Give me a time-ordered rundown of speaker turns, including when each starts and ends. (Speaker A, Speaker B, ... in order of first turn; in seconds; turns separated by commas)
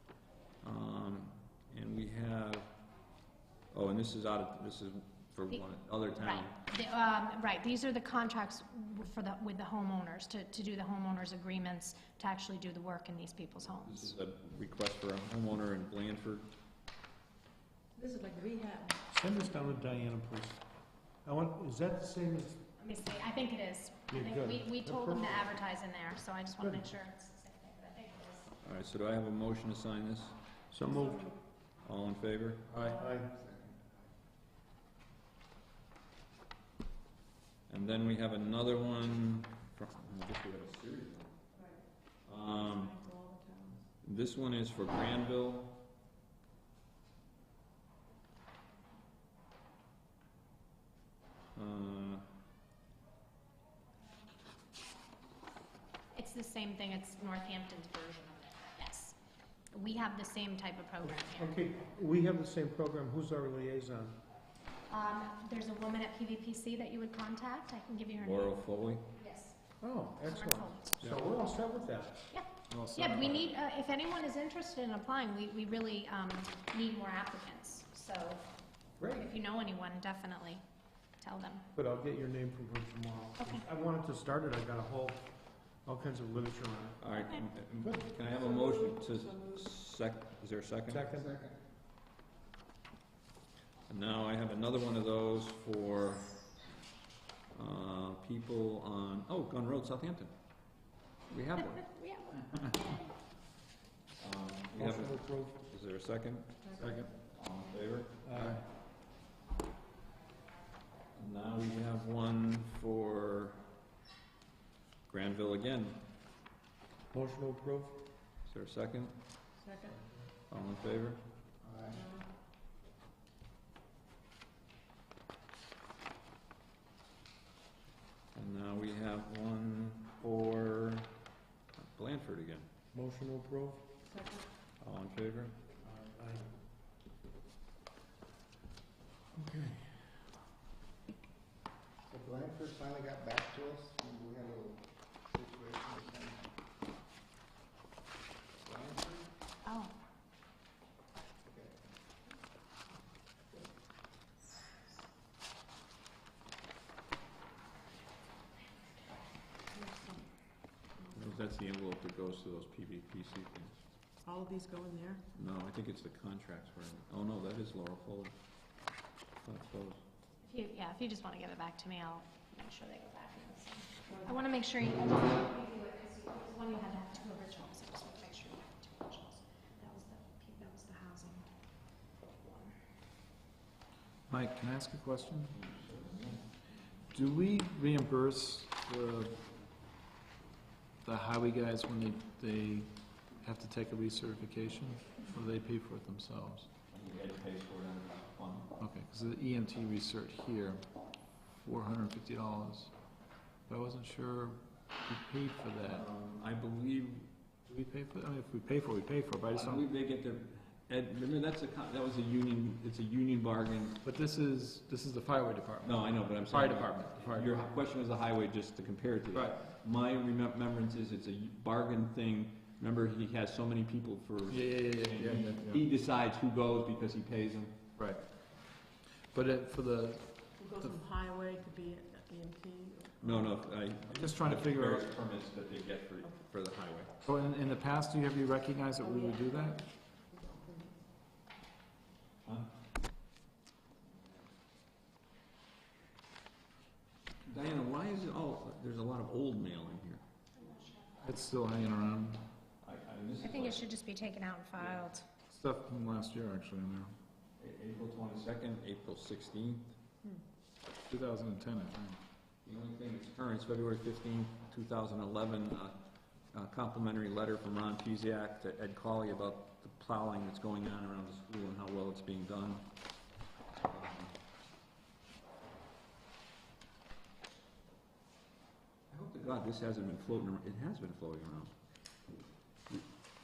Speaker A: 0.6-2.7, Speaker A: 3.7-6.6, Speaker B: 6.2-14.1, Speaker A: 13.8-16.5, Speaker C: 18.0-19.0, Speaker D: 19.1-20.6, Speaker D: 21.2-22.6, Speaker B: 22.8-28.5, Speaker D: 24.1-25.4, Speaker D: 26.6-26.9, Speaker A: 28.6-30.4, Speaker D: 30.7-31.3, Speaker A: 31.9-32.7, Speaker D: 32.9-33.3, Speaker E: 33.2-33.8, Speaker A: 37.7-41.3, Speaker A: 42.3-43.0, Speaker C: 42.5-43.8, Speaker A: 44.0-45.8, Speaker A: 51.5-52.2, Speaker B: 56.1-59.2, Speaker B: 59.7-61.5, Speaker D: 61.0-64.2, Speaker B: 64.9-69.6, Speaker A: 68.2-69.0, Speaker D: 69.8-72.2, Speaker B: 70.2-71.0, Speaker B: 72.3-78.5, Speaker F: 72.7-73.5, Speaker D: 79.0-79.3, Speaker B: 79.1-80.6, Speaker B: 81.2-81.7, Speaker D: 81.8-85.3, Speaker B: 83.4-83.7, Speaker D: 85.9-87.0, Speaker A: 87.0-91.0, Speaker D: 87.8-88.2, Speaker D: 90.9-91.3, Speaker E: 91.1-91.5, Speaker A: 93.9-96.3, Speaker A: 97.5-100.3, Speaker A: 101.3-102.6, Speaker A: 104.2-108.2, Speaker D: 104.8-105.6, Speaker F: 106.8-107.1, Speaker D: 108.2-108.6, Speaker F: 108.3-108.6, Speaker A: 111.2-113.6, Speaker A: 115.1-116.0, Speaker D: 117.1-118.0, Speaker A: 118.5-119.2, Speaker C: 119.6-120.0, Speaker A: 120.5-121.2, Speaker E: 121.6-122.0, Speaker C: 121.9-122.2, Speaker A: 128.3-131.1, Speaker A: 131.8-132.7, Speaker D: 132.9-133.8, Speaker C: 134.1-134.4, Speaker A: 134.8-135.6, Speaker D: 135.8-136.5, Speaker D: 139.3-140.0, Speaker E: 142.1-146.5, Speaker E: 148.6-149.3, Speaker B: 149.7-149.9, Speaker E: 151.5-151.8, Speaker C: 159.7-160.3, Speaker A: 161.1-163.8, Speaker C: 164.2-165.2, Speaker A: 165.3-168.3, Speaker A: 169.4-170.0, Speaker B: 170.4-181.5, Speaker B: 182.4-182.8, Speaker F: 184.3-185.6, Speaker A: 185.5-186.5, Speaker F: 187.1-189.4, Speaker F: 191.0-196.7, Speaker A: 196.9-198.7, Speaker F: 198.8-200.9, Speaker F: 201.5-202.9, Speaker F: 203.7-206.0, Speaker A: 205.9-207.3, Speaker F: 207.7-209.8, Speaker A: 209.5-214.0, Speaker F: 214.0-217.5, Speaker A: 215.8-227.8, Speaker F: 219.3-219.6, Speaker F: 224.5-225.8, Speaker F: 228.0-228.2, Speaker F: 229.3-231.0, Speaker C: 230.6-233.5, Speaker A: 233.2-237.1, Speaker F: 234.1-235.1, Speaker F: 237.2-239.8, Speaker C: 239.0-241.0, Speaker A: 247.5-250.2, Speaker B: 250.6-251.1, Speaker F: 251.2-252.4, Speaker A: 252.8-253.8, Speaker B: 253.4-255.2, Speaker A: 254.8-255.1, Speaker F: 255.5-257.1, Speaker A: 257.6-259.9, Speaker F: 261.1-262.2, Speaker A: 262.6-266.0, Speaker A: 266.5-272.9, Speaker A: 273.8-274.3, Speaker A: 279.1-281.7